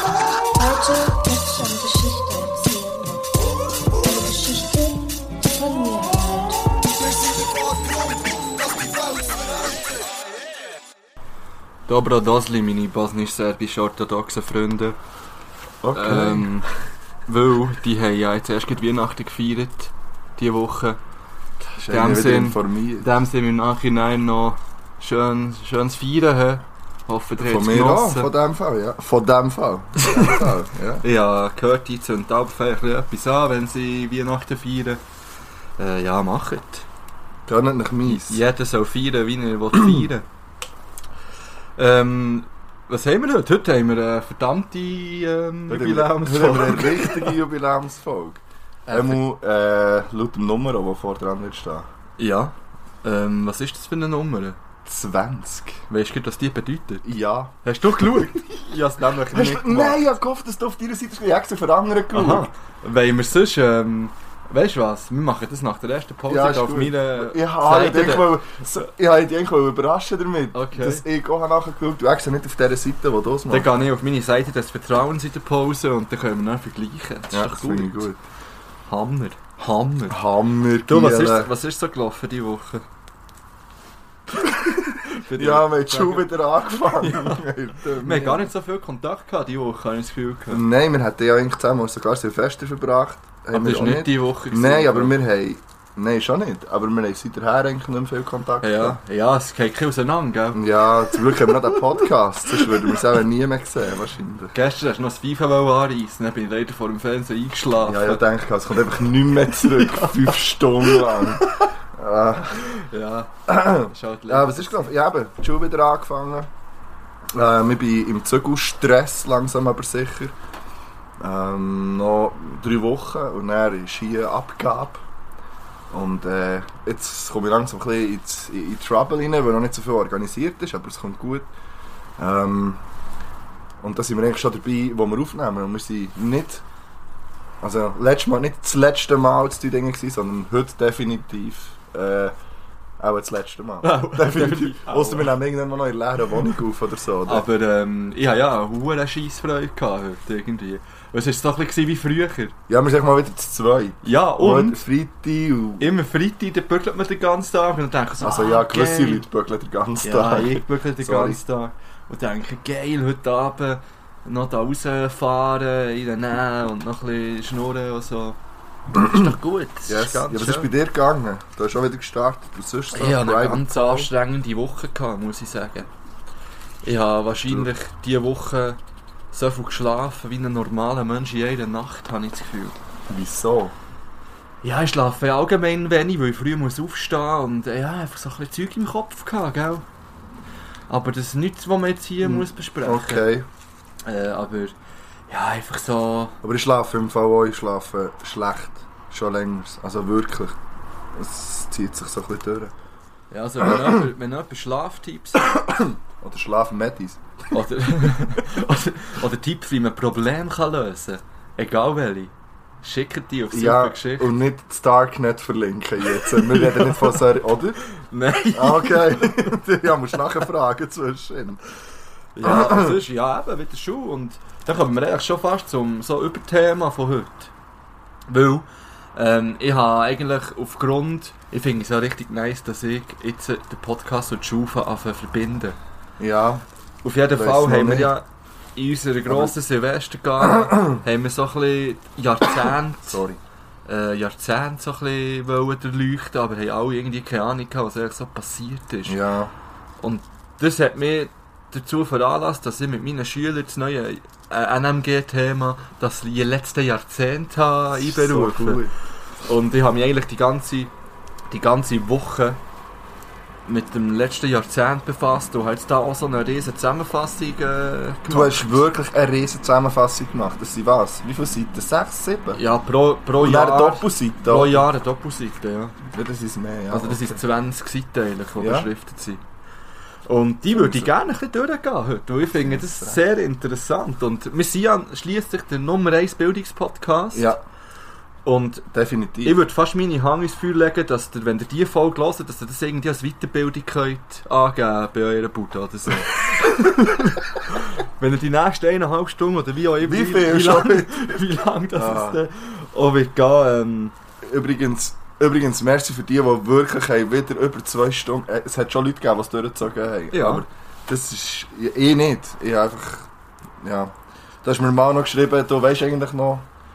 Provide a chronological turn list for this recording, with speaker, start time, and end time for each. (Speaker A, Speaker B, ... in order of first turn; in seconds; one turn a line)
Speaker A: 0.5-3.3
Speaker A: 4.0-6.6
Speaker B: 11.9-15.0
Speaker C: 15.8-16.6
Speaker B: 15.9-16.7
Speaker B: 17.3-21.0
Speaker B: 21.6-28.3
Speaker C: 21.8-23.1
Speaker C: 27.4-31.0
Speaker B: 30.0-30.5
Speaker B: 31.0-35.0
Speaker B: 35.8-36.9
Speaker C: 37.5-38.4
Speaker B: 38.0-40.2
Speaker C: 39.7-40.1
Speaker B: 41.8-47.4
Speaker C: 45.7-51.9
Speaker B: 48.9-49.2
Speaker B: 52.2-54.6
Speaker C: 54.8-55.8
Speaker B: 55.9-57.0
Speaker C: 57.0-57.5
Speaker B: 57.6-60.0
Speaker C: 59.3-62.5
Speaker B: 62.1-68.4
Speaker C: 66.3-73.7
Speaker B: 70.5-71.0
Speaker B: 73.5-78.1
Speaker C: 77.3-78.2
Speaker B: 78.9-80.2
Speaker C: 80.1-81.5
Speaker B: 80.9-82.8
Speaker B: 84.5-87.5
Speaker C: 85.3-88.5
Speaker B: 88.0-90.6
Speaker C: 90.5-99.0
Speaker B: 93.5-95.1
Speaker B: 98.6-103.1
Speaker C: 100.5-104.5
Speaker B: 104.5-108.2
Speaker C: 107.8-112.7
Speaker B: 109.5-111.5
Speaker B: 112.6-114.9
Speaker C: 113.5-116.5
Speaker C: 117.3-120.3
Speaker C: 121.2-125.0
Speaker C: 125.9-131.5
Speaker C: 132.2-132.8
Speaker C: 133.8-136.6
Speaker C: 137.6-142.3
Speaker C: 143.0-147.4
Speaker B: 143.8-145.3
Speaker B: 147.2-152.5
Speaker C: 152.7-155.9
Speaker B: 154.0-154.8
Speaker B: 155.8-159.2
Speaker C: 158.2-161.4
Speaker B: 160.0-168.4
Speaker B: 168.9-170.7
Speaker C: 168.9-169.3
Speaker C: 169.9-174.1
Speaker B: 172.9-175.9
Speaker B: 176.8-178.8
Speaker B: 179.3-182.8
Speaker C: 183.1-183.7
Speaker B: 184.6-189.8
Speaker B: 190.9-193.2
Speaker C: 192.2-193.5
Speaker B: 194.1-194.7
Speaker B: 195.3-196.3
Speaker C: 196.4-200.6
Speaker C: 201.1-202.7
Speaker B: 203.3-205.5
Speaker C: 203.6-204.1
Speaker C: 205.4-207.2
Speaker B: 207.5-214.3
Speaker C: 213.5-217.8
Speaker B: 216.1-217.2
Speaker B: 217.8-219.6
Speaker C: 218.5-221.6
Speaker B: 222.3-227.5
Speaker C: 222.4-223.0
Speaker B: 228.3-235.8
Speaker C: 236.2-236.6
Speaker B: 237.0-243.2
Speaker C: 237.3-238.1
Speaker C: 239.3-239.5
Speaker C: 240.4-241.0
Speaker C: 243.1-243.4
Speaker B: 243.8-249.2
Speaker C: 249.1-249.5
Speaker B: 250.0-258.8
Speaker C: 257.9-258.9
Speaker B: 259.4-260.9
Speaker B: 261.5-262.6
Speaker B: 263.6-268.8
Speaker C: 268.3-272.6
Speaker B: 272.5-276.0
Speaker C: 273.4-274.9
Speaker C: 276.0-277.4
Speaker B: 276.9-279.4
Speaker C: 278.6-278.9
Speaker B: 280.2-287.5
Speaker C: 280.7-281.1
Speaker C: 282.5-283.2
Speaker C: 287.3-287.6
Speaker B: 288.4-288.9
Speaker C: 288.9-289.6
Speaker B: 289.4-304.1
Speaker C: 300.0-301.3
Speaker C: 301.9-302.4
Speaker C: 304.4-313.3
Speaker B: 310.3-310.6
Speaker C: 313.8-316.6